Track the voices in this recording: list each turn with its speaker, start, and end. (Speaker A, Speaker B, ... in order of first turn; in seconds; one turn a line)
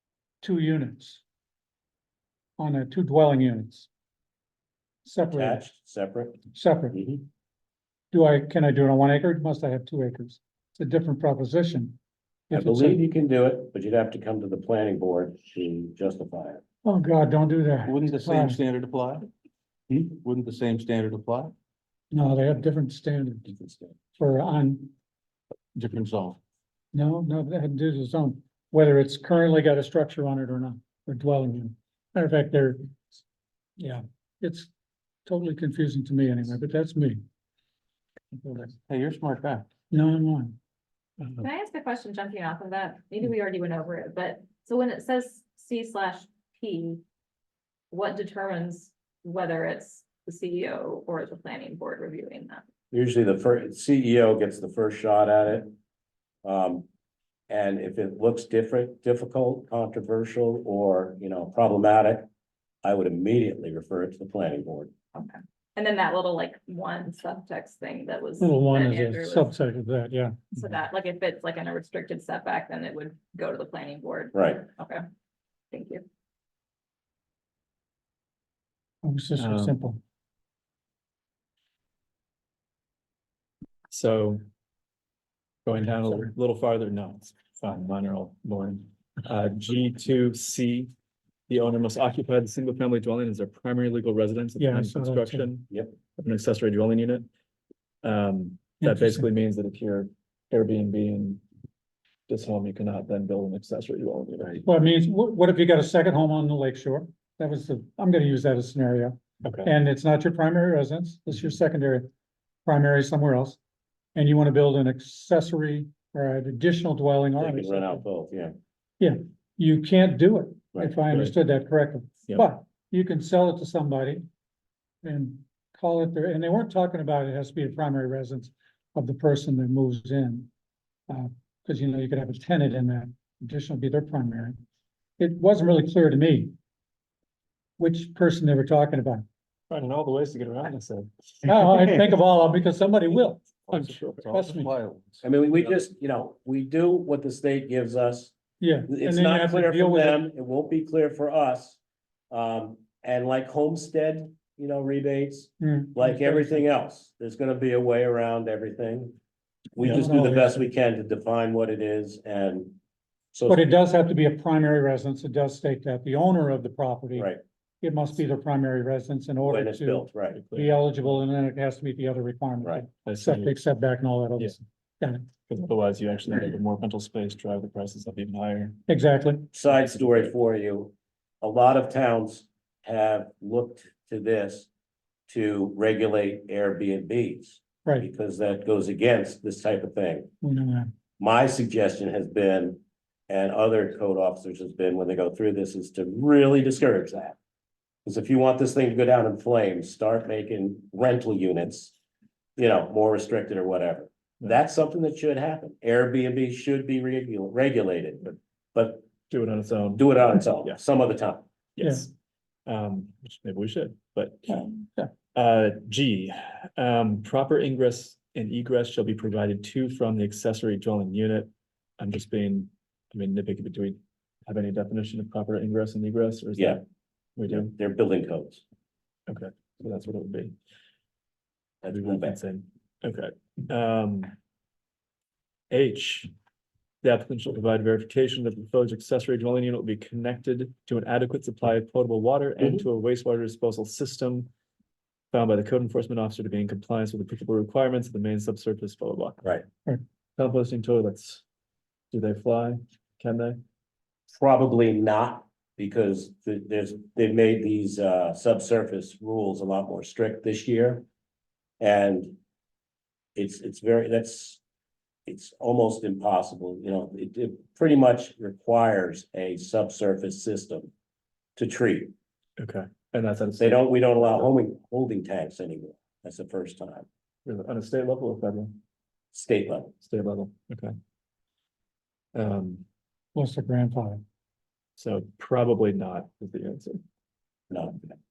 Speaker A: 0.4-1.2
Speaker A: 2.6-3.9
Speaker A: 5.0-5.6
Speaker B: 5.3-7.2
Speaker A: 6.5-7.0
Speaker A: 8.1-12.0
Speaker A: 12.5-13.0
Speaker B: 12.5-16.6
Speaker A: 16.8-18.6
Speaker C: 17.9-19.3
Speaker C: 19.9-21.5
Speaker A: 22.1-23.5
Speaker B: 23.5-24.0
Speaker A: 24.1-24.9
Speaker C: 25.7-26.4
Speaker A: 26.9-33.2
Speaker A: 33.8-34.7
Speaker A: 35.2-37.2
Speaker C: 38.5-39.7
Speaker A: 39.9-40.6
Speaker D: 41.2-41.4
Speaker E: 41.4-47.0
Speaker E: 47.9-52.6
Speaker B: 52.9-55.8
Speaker B: 56.4-56.9
Speaker B: 57.5-62.3
Speaker B: 62.8-64.9
Speaker E: 65.1-69.5
Speaker A: 68.4-70.5
Speaker E: 70.5-75.0
Speaker B: 74.3-74.6
Speaker E: 75.7-76.0
Speaker A: 79.0-80.0
Speaker D: 79.4-79.8
Speaker D: 83.9-84.4
Speaker D: 85.7-90.9
Speaker D: 91.5-97.2
Speaker A: 94.6-95.5
Speaker D: 98.0-101.4
Speaker A: 98.8-99.2
Speaker D: 102.3-104.6
Speaker A: 104.6-112.1
Speaker D: 109.4-109.7
Speaker A: 112.7-113.6
Speaker A: 114.1-118.0
Speaker B: 117.4-118.5
Speaker A: 119.0-124.2
Speaker A: 125.0-130.5
Speaker A: 131.1-134.6
Speaker A: 135.2-136.5
Speaker A: 137.8-139.2
Speaker D: 139.7-141.4
Speaker A: 141.4-144.7
Speaker C: 143.7-145.3
Speaker D: 143.8-144.2
Speaker B: 145.2-148.3
Speaker A: 148.6-150.2
Speaker B: 148.9-151.8
Speaker B: 152.3-159.2
Speaker A: 155.6-156.6
Speaker B: 159.8-162.8
Speaker A: 159.8-160.7
Speaker B: 163.3-163.6
Speaker A: 163.5-175.2
Speaker B: 167.1-167.4
Speaker B: 169.4-170.4
Speaker D: 170.3-171.1
Speaker D: 173.0-173.6
Speaker D: 175.5-178.8
Speaker A: 178.9-179.5
Speaker B: 179.5-184.7
Speaker D: 179.7-180.3
Speaker B: 185.3-190.3
Speaker A: 190.4-190.9
Speaker B: 191.2-197.4
Speaker B: 198.0-201.9
Speaker B: 202.6-209.1
Speaker D: 209.3-210.8
Speaker B: 210.0-211.4
Speaker D: 211.8-212.1
Speaker D: 212.7-214.6
Speaker A: 214.5-215.1
Speaker D: 215.3-226.8
Speaker D: 227.3-227.7
Speaker B: 227.5-228.6
Speaker D: 229.3-230.5
Speaker B: 231.8-232.4
Speaker D: 231.9-234.3
Speaker D: 235.7-236.3
Speaker D: 237.0-244.5
Speaker D: 245.3-249.4
Speaker D: 250.4-251.4
Speaker D: 252.1-253.6
Speaker B: 254.3-261.0
Speaker B: 261.8-262.4
Speaker B: 263.3-264.6
Speaker B: 265.2-270.9
Speaker B: 271.6-272.1
Speaker D: 272.6-274.5
Speaker B: 273.6-277.1
Speaker D: 277.4-278.8
Speaker B: 279.3-279.9
Speaker D: 280.0-280.9
Speaker D: 282.3-282.8
Speaker A: 283.3-284.2
Speaker D: 285.0-287.0
Speaker B: 287.7-288.1